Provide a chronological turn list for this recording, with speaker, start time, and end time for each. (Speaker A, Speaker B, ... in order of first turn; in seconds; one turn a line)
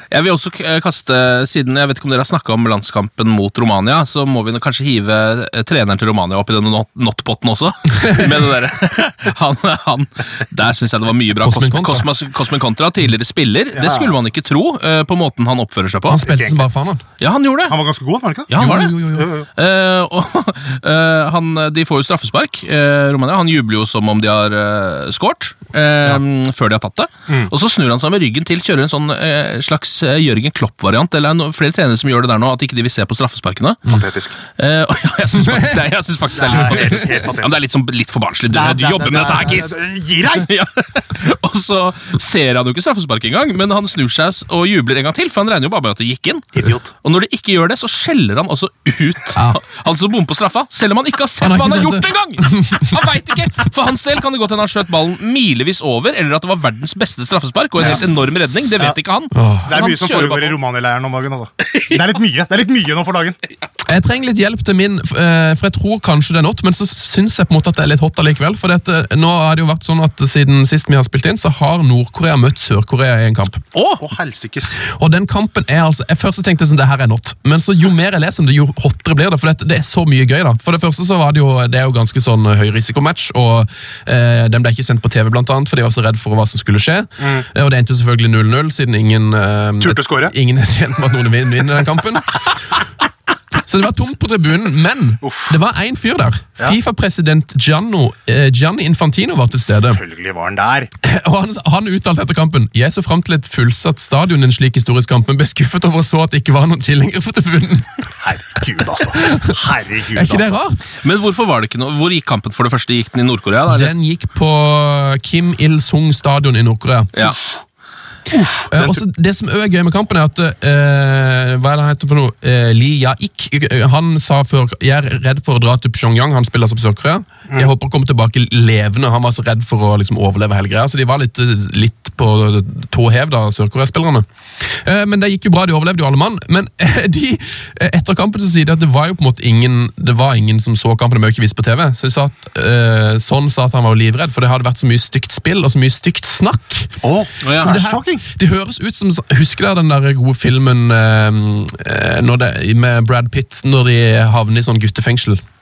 Speaker A: 0.1-16.2
Speaker B: 11.4-12.1
Speaker C: 13.7-14.1
Speaker B: 16.1-17.0
Speaker C: 16.1-16.7
Speaker A: 17.2-17.8
Speaker C: 17.7-19.5
Speaker A: 18.5-19.0
Speaker B: 18.6-19.3
Speaker A: 19.6-33.8
Speaker C: 27.3-27.5
Speaker C: 33.9-34.4
Speaker A: 34.6-60.6
Speaker B: 35.5-35.8
Speaker C: 36.3-37.6
Speaker C: 38.5-40.5
Speaker C: 46.6-46.9
Speaker B: 51.4-52.9
Speaker B: 59.3-59.8
Speaker C: 59.6-63.4
Speaker A: 61.6-62.1
Speaker B: 63.9-73.6
Speaker A: 73.7-74.0
Speaker C: 74.0-74.8
Speaker B: 74.8-92.3
Speaker C: 87.2-87.5
Speaker C: 89.8-90.3
Speaker B: 93.7-100.0
Speaker C: 95.2-95.6
Speaker C: 99.7-100.9
Speaker B: 101.0-108.0
Speaker C: 108.2-110.6
Speaker B: 109.2-109.6
Speaker B: 110.1-110.9
Speaker A: 111.0-113.9
Speaker B: 113.7-117.3
Speaker C: 118.3-119.0
Speaker B: 118.7-134.3
Speaker B: 134.8-146.9
Speaker C: 147.0-148.2
Speaker A: 147.4-147.7
Speaker B: 147.6-155.4